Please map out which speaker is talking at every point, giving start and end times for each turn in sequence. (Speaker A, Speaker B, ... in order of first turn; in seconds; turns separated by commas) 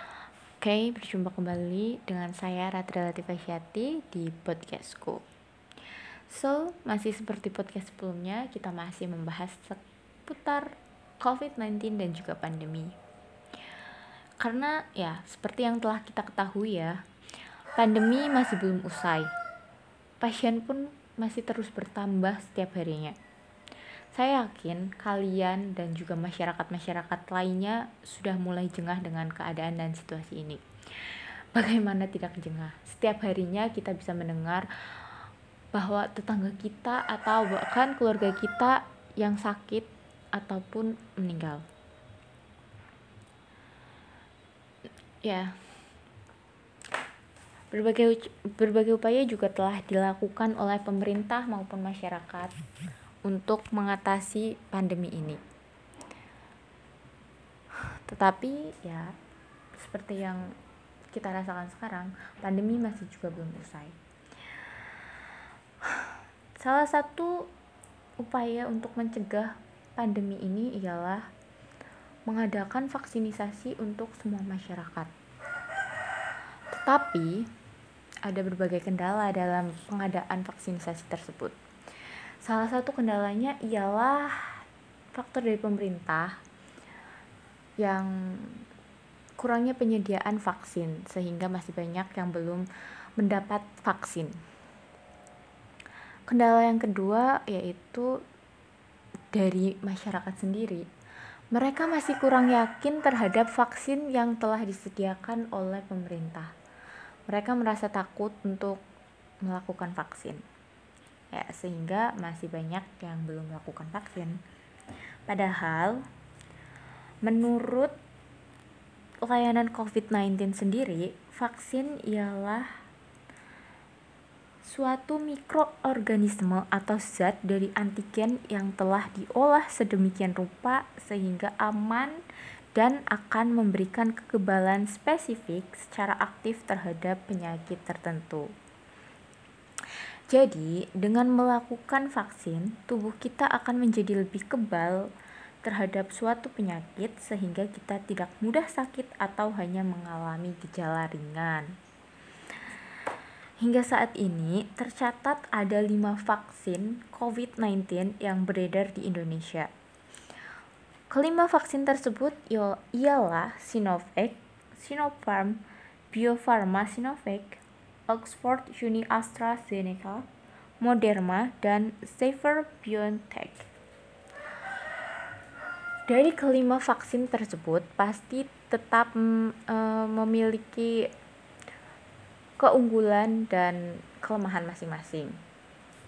Speaker A: 0.6-5.2, Speaker A: 6.3-13.0, Speaker A: 14.4-17.0, Speaker A: 17.8-19.3, Speaker A: 20.2-23.1, Speaker A: 24.1-34.7, Speaker A: 35.7-41.6, Speaker A: 45.2-45.5, Speaker A: 47.7-52.5, Speaker A: 53.3-55.4, Speaker A: 57.9-59.1, Speaker A: 59.8-60.5, Speaker A: 61.1-64.0, Speaker A: 65.8-67.5, Speaker A: 68.2-71.2, Speaker A: 72.3-75.1, Speaker A: 76.7-77.5, Speaker A: 78.2-81.5, Speaker A: 82.4-84.6, Speaker A: 85.1-86.4, Speaker A: 87.8-88.6, Speaker A: 89.4-94.3, Speaker A: 96.3-98.2, Speaker A: 99.3-100.9, Speaker A: 101.5-106.5, Speaker A: 107.3-108.8, Speaker A: 109.4-110.4, Speaker A: 111.3-114.4, Speaker A: 115.3-116.0, Speaker A: 117.2-118.0, Speaker A: 119.2-122.7, Speaker A: 124.6-132.2, Speaker A: 132.7-138.5, Speaker A: 140.3-145.1, Speaker A: 145.6-151.7, Speaker A: 153.6-159.7, Speaker A: 161.1-170.2, Speaker A: 170.8-173.7, Speaker A: 176.1-181.1, Speaker A: 182.6-185.4